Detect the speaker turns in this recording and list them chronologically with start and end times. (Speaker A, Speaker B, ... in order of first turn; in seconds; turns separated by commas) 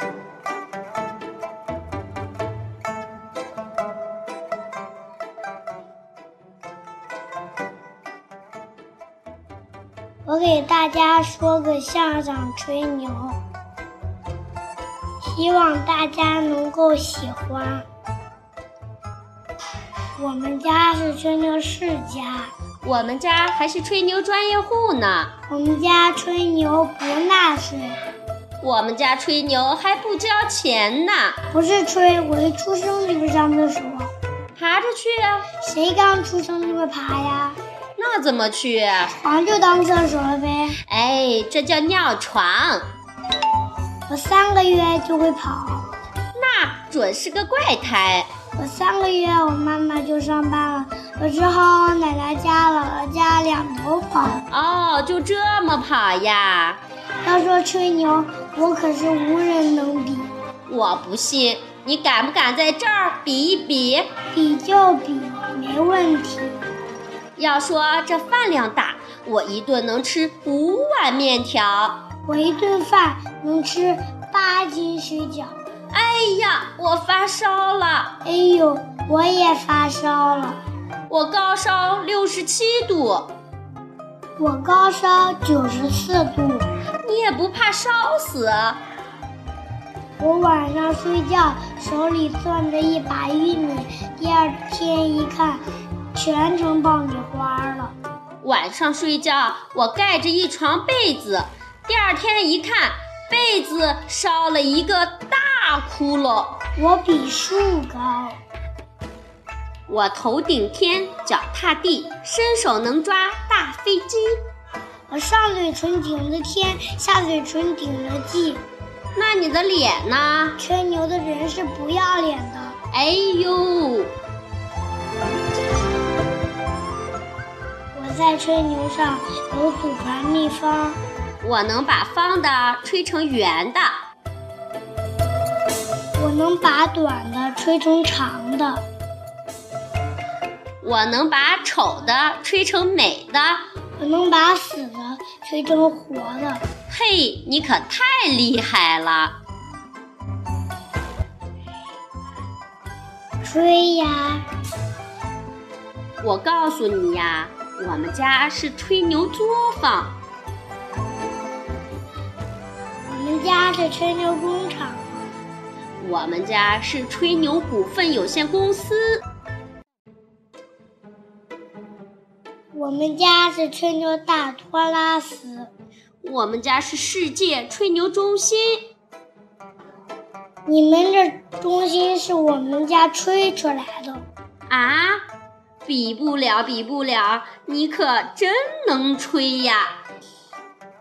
Speaker A: 10.2-13.4, Speaker A: 15.2-17.9, Speaker A: 20.2-22.5, Speaker B: 22.8-25.3, Speaker A: 25.5-27.9, Speaker B: 28.6-31.4, Speaker A: 31.5-34.1, Speaker B: 34.5-35.5, Speaker A: 35.6-37.6, Speaker B: 38.0-39.1, Speaker A: 39.1-40.8, Speaker B: 40.9-42.8, Speaker A: 44.1-45.9, Speaker B: 46.3-48.3, Speaker A: 48.5-54.4, Speaker B: 54.5-56.8, Speaker A: 57.2-60.3, Speaker B: 60.7-64.1, Speaker A: 64.3-66.5, Speaker B: 67.4-72.0, Speaker A: 72.2-75.6, Speaker B: 75.9-78.2, Speaker A: 78.2-80.6, Speaker B: 81.1-83.3, Speaker A: 84.4-86.7, Speaker B: 87.0-88.8, Speaker A: 90.2-95.6, Speaker A: 96.1-98.0, Speaker B: 98.4-106.6, Speaker A: 106.8-108.4, Speaker B: 109.9-114.4, Speaker A: 115.1-118.6, Speaker B: 119.1-120.6, Speaker A: 120.6-122.8, Speaker B: 122.9-124.1, Speaker A: 127.9-131.0, Speaker B: 131.4-133.9, Speaker A: 136.2-138.8, Speaker B: 140.8-143.7, Speaker A: 144.0-146.6, Speaker B: 146.9-149.4, Speaker A: 153.4-154.4, Speaker B: 156.2-160.2, Speaker A: 163.1-165.2, Speaker B: 166.0-169.2, Speaker A: 172.7-175.7, Speaker B: 176.2-178.9, Speaker A: 180.7-184.3, Speaker B: 184.7-185.2, Speaker B: 185.8-189.9